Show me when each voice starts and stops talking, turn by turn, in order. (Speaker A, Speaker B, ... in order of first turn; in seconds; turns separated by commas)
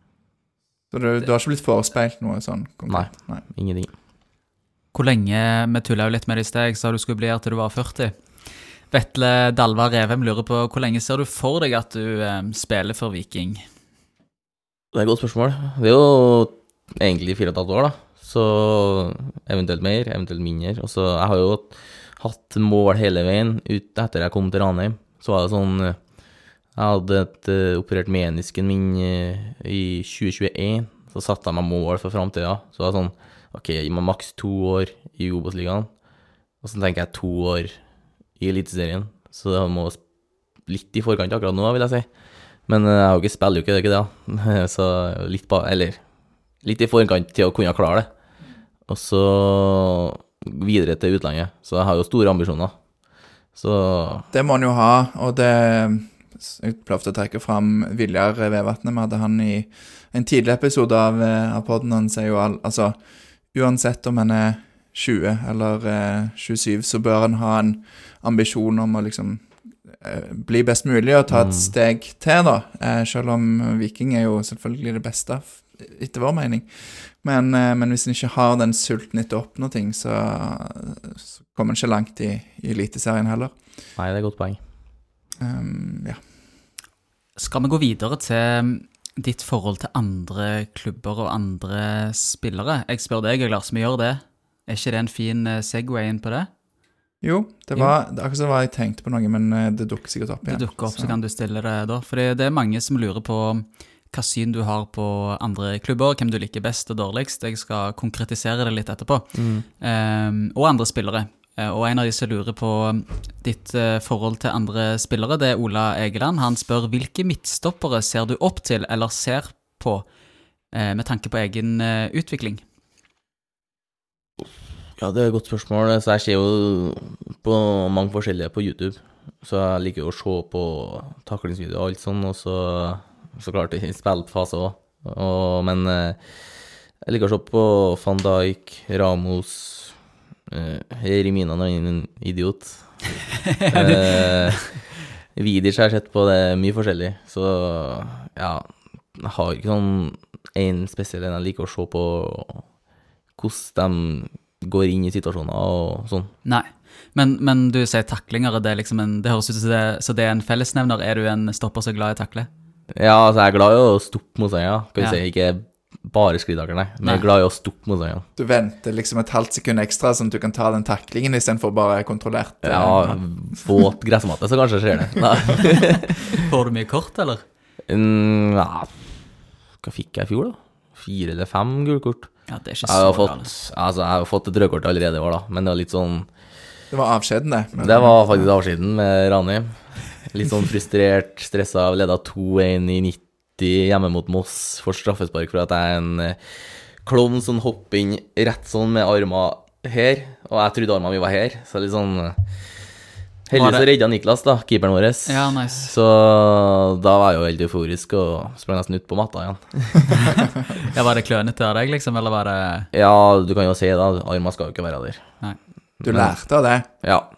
Speaker A: 0.9-3.4, Speaker B: 2.9-3.9, Speaker C: 4.9-8.3, Speaker C: 8.9-13.6, Speaker B: 14.9-26.0, Speaker B: 26.8-35.9, Speaker B: 36.6-37.7, Speaker B: 38.4-40.0, Speaker B: 40.6-42.1, Speaker B: 42.6-46.0, Speaker B: 46.6-48.1, Speaker B: 48.9-52.7, Speaker B: 53.5-54.2, Speaker A: 54.3-63.0, Speaker A: 63.5-83.5, Speaker B: 71.3-71.7, Speaker B: 84.0-84.6, Speaker A: 85.4-86.2, Speaker C: 87.3-96.5, Speaker A: 97.2-101.2, Speaker C: 100.5-120.1, Speaker B: 109.3-109.7, Speaker C: 120.7-122.6, Speaker B: 125.0-136.4, Speaker B: 137.0-140.0, Speaker B: 140.5-152.7, Speaker C: 143.4-144.6, Speaker B: 153.3-156.3, Speaker C: 156.4-162.5, Speaker B: 162.9-168.2, Speaker A: 168.4-173.2, Speaker B: 172.6-176.3, Speaker C: 176.3-177.4, Speaker B: 177.9-179.1, Speaker B: 179.8-182.3, Speaker C: 182.5-183.5, Speaker B: 182.8-186.3, Speaker A: 186.9-188.5, Speaker B: 187.8-202.4, Speaker B: 203.5-210.1, Speaker C: 203.5-203.9, Speaker C: 205.3-205.9, Speaker C: 210.1-212.9, Speaker B: 212.9-215.3, Speaker B: 216.0-216.4, Speaker A: 216.0-217.0, Speaker B: 217.0-217.3